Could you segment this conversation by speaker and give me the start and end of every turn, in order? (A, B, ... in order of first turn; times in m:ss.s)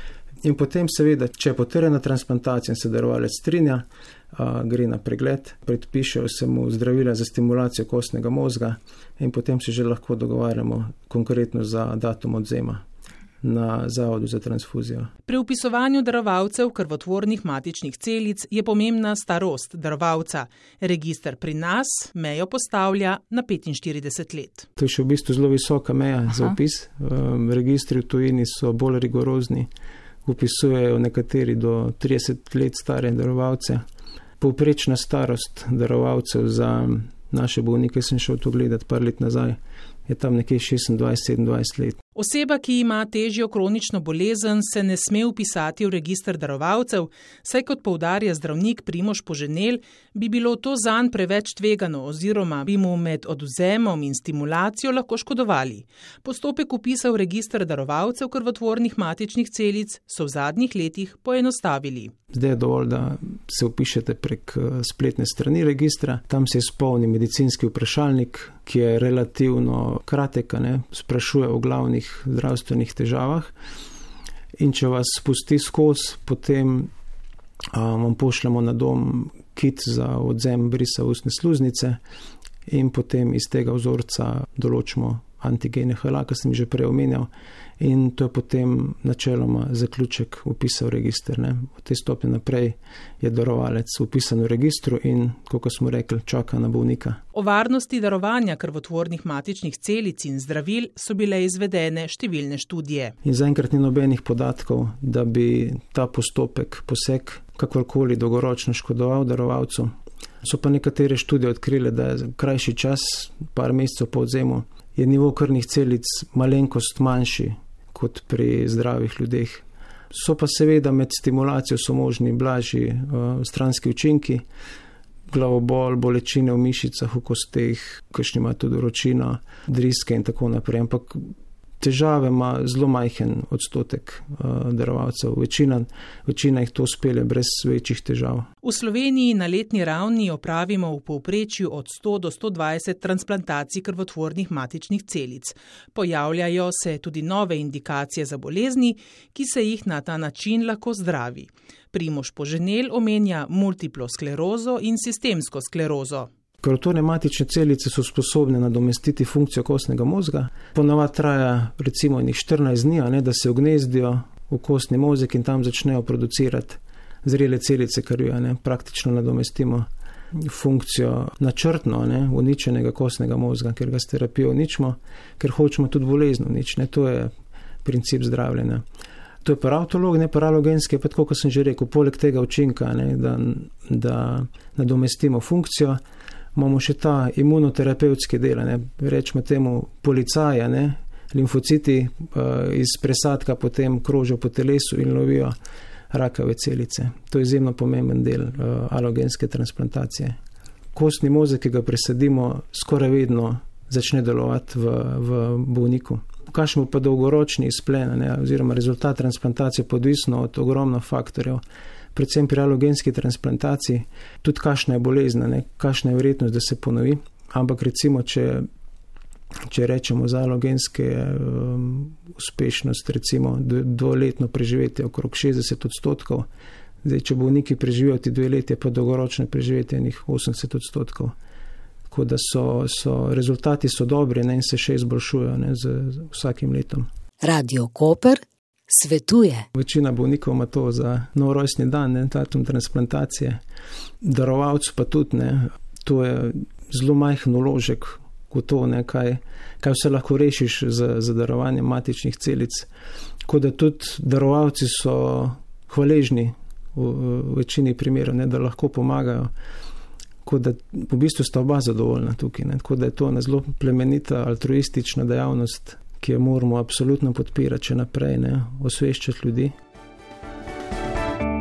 0:00.4-0:12.8 A
0:13.4-0:15.1 A
0:15.2-0:24.7 B
0:24.8-0:29.7 A
0:30.2-0:33.8 A
0:34.4-0:42.0 A
0:42.1-1:02.1 B
1:02.3-1:13.5 A
1:14.6-1:16.9 A
1:17.7-1:22.0 A
1:22.7-1:37.2 A
1:37.3-1:43.1 B
1:43.2-2:04.4 A
2:05.3-2:18.5 A
2:18.6-2:36.3 B
2:36.6-2:57.3 A
2:57.8-2:58.8 A
2:59.4-3:06.0 A
3:06.5-3:15.5 A
3:16.1-3:20.4 A
3:20.9-3:31.6 A
3:32.1-3:38.7 A
3:39.7-3:46.4 A
3:47.0-3:51.3 A
3:52.1-3:57.1 A
3:57.4-3:59.6 C
3:59.7-4:03.6 A
4:04.2-4:12.9 A
4:13.4-4:19.5 A
4:20.4-4:29.7 A